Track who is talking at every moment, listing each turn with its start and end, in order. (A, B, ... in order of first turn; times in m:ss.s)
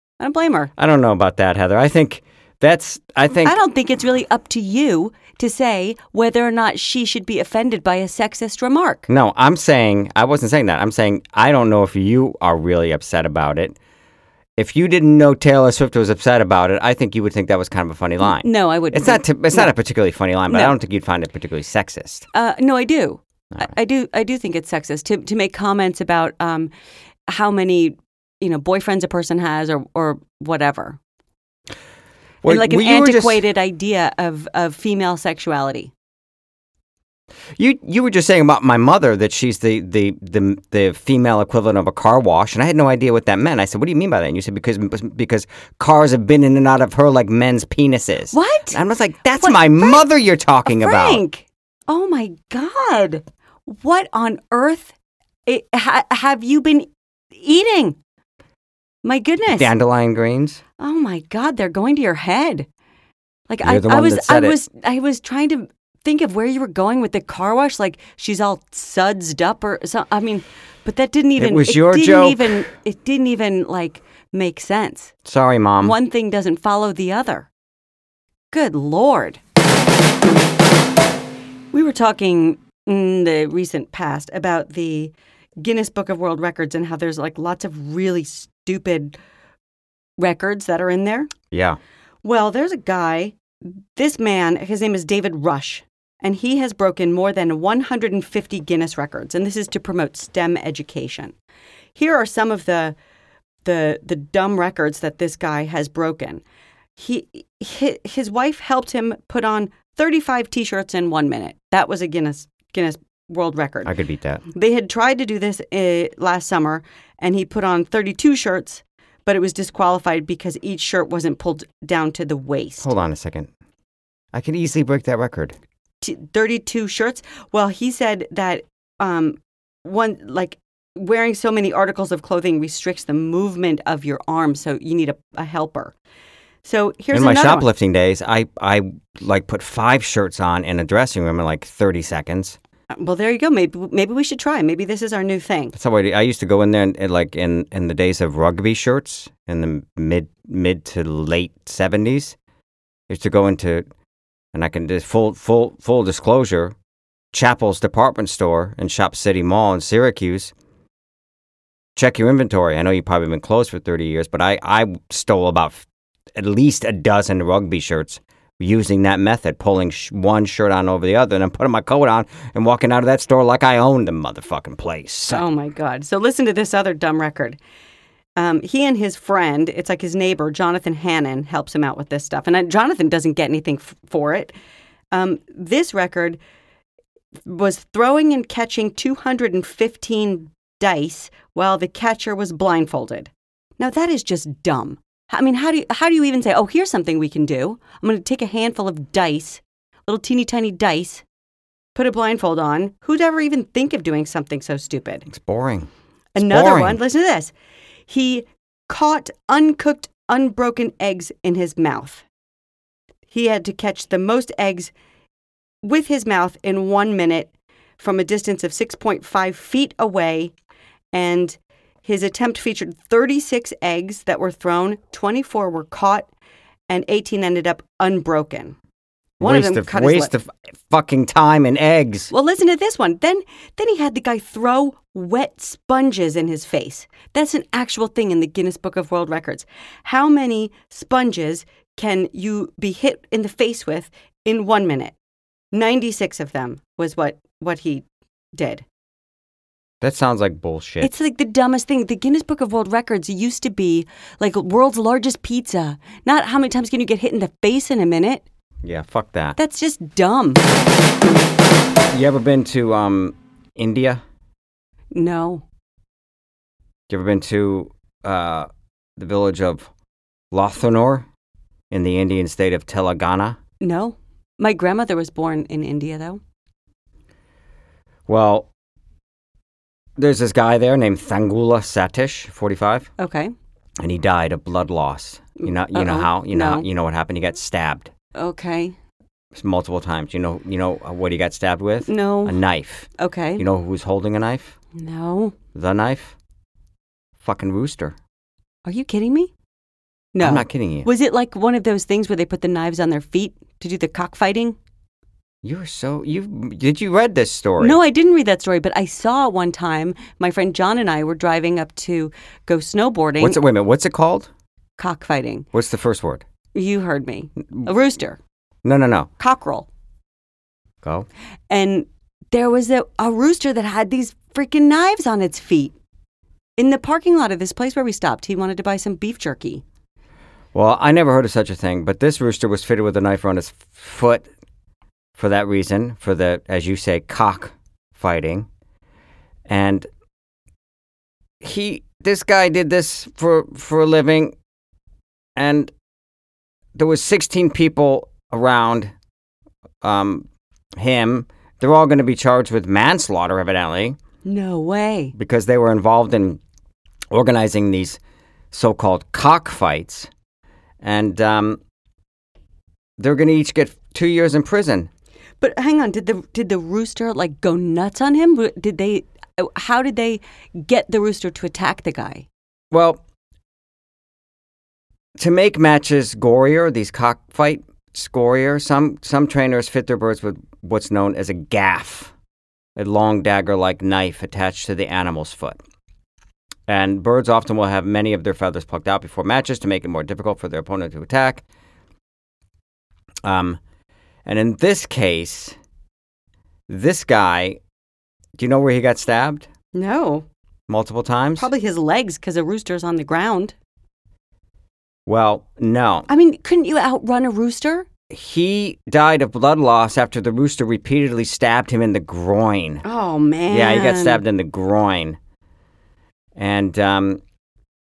0:00.2-0:00.7 A
0:00.8-0:03.6 B
0:03.4-0:09.1 A
0:09.1-0:13.8 B
0:14.6-0:22.3 B
0:18.2-0:19.7 A
0:20.5-0:20.8 A
0:22.3-0:26.7 A
0:27.3-0:31.0 A
0:32.4-0:33.4 B
0:32.4-0:35.9 A
0:37.6-0:51.2 B
0:48.3-0:48.8 A
0:49.4-0:50.1 A
0:50.7-0:54.9 A
0:55.5-0:58.0 A
0:59.0-0:59.7 A
0:59.5-1:00.6 B
1:00.8-1:02.7 A
1:03.5-1:15.1 A
1:03.6-1:04.6 B
1:11.4-1:12.7 B
1:15.3-1:16.0 B
1:15.8-1:17.5 A
1:18.5-1:19.4 A
1:21.7-1:29.2 A
1:30.2-1:31.3 A
1:31.5-1:31.8 B
1:32.2-1:41.3 A
1:42.0-1:43.0 A
1:43.6-1:46.4 A
1:47.0-1:53.9 A
1:53.8-1:54.4 B
1:54.5-2:02.9 A
2:02.8-2:03.5 B
2:04.3-2:05.6 B
2:06.0-2:16.0 A
2:16.6-2:17.7 A
2:17.1-2:22.6 B
2:22.9-2:25.8 A
2:25.8-2:32.4 B
2:33.1-2:33.9 B
2:34.5-2:36.8 B
2:37.3-2:40.5 B
2:42.0-2:55.5 B
2:55.3-2:57.6 A
2:58.4-3:04.6 A
3:05.1-3:06.4 A
3:07.5-3:21.2 A
3:22.0-3:25.3 A
3:25.3-3:27.0 B
3:26.4-3:27.5 A
3:28.1-3:32.2 A
3:33.3-3:34.9 A
3:35.8-3:40.5 A
3:41.1-3:46.3 A
3:46.9-3:48.8 A
3:49.4-3:50.3 A
3:49.4-3:52.3 B
3:52.3-4:05.2 A
4:05.7-4:08.8 A
4:10.0-4:11.1 B
4:11.0-4:18.4 A
4:18.8-4:19.6 B
4:19.6-4:20.6 A
4:22.1-4:24.2 B
4:25.1-4:25.6 A
4:27.1-4:29.9 B
4:30.5-4:31.3 B
4:31.9-4:33.6 B
4:33.8-4:36.4 A
4:38.3-4:38.7 B
4:40.2-4:43.1 B
4:43.2-4:43.5 A
4:44.0-4:48.1 B
4:45.6-4:46.8 A
4:48.4-4:49.0 A
4:49.5-4:54.8 B
4:52.1-4:52.6 A
4:53.2-4:53.6 A
4:55.0-4:55.6 A
4:55.8-4:56.4 B
4:57.4-4:58.2 B
4:58.8-4:59.5 A
5:00.3-5:04.8 A
5:00.4-5:01.1 B
5:05.6-5:08.0 B
5:07.8-5:13.6 A
5:13.4-5:14.5 B
5:15.0-5:15.7 A
5:15.7-5:16.4 B
5:16.7-5:18.4 A
5:18.8-5:19.3 B
5:19.4-5:19.9 A
5:21.7-5:26.0 A
5:26.8-5:29.8 A
5:30.7-5:34.5 B
5:35.4-5:38.7 B
5:39.7-5:40.1 B
5:41.6-5:44.6 B
5:45.6-5:45.9 B
5:47.0-5:49.1 B
5:50.0-5:50.5 B
5:51.0-5:54.2 B
5:54.4-5:55.3 A
5:55.4-5:56.6 B
5:57.3-5:58.2 B
5:58.7-6:00.3 B
6:01.0-6:01.8 B
6:03.2-6:05.1 B
6:05.6-6:12.5 A
6:12.9-6:13.2 B
6:15.4-6:22.3 B
6:23.0-6:25.8 B
6:26.9-6:31.6 B
6:33.4-6:33.8 B
6:34.5-6:35.8 B
6:36.9-6:37.8 B
6:38.6-6:39.7 B
6:39.9-6:40.4 A
6:40.9-6:41.7 B
6:41.6-6:43.8 A
6:45.3-6:46.3 B
6:46.3-6:48.1 A
6:48.3-6:53.0 B
6:53.0-6:54.4 A
6:53.7-6:55.4 B
6:56.6-6:57.4 B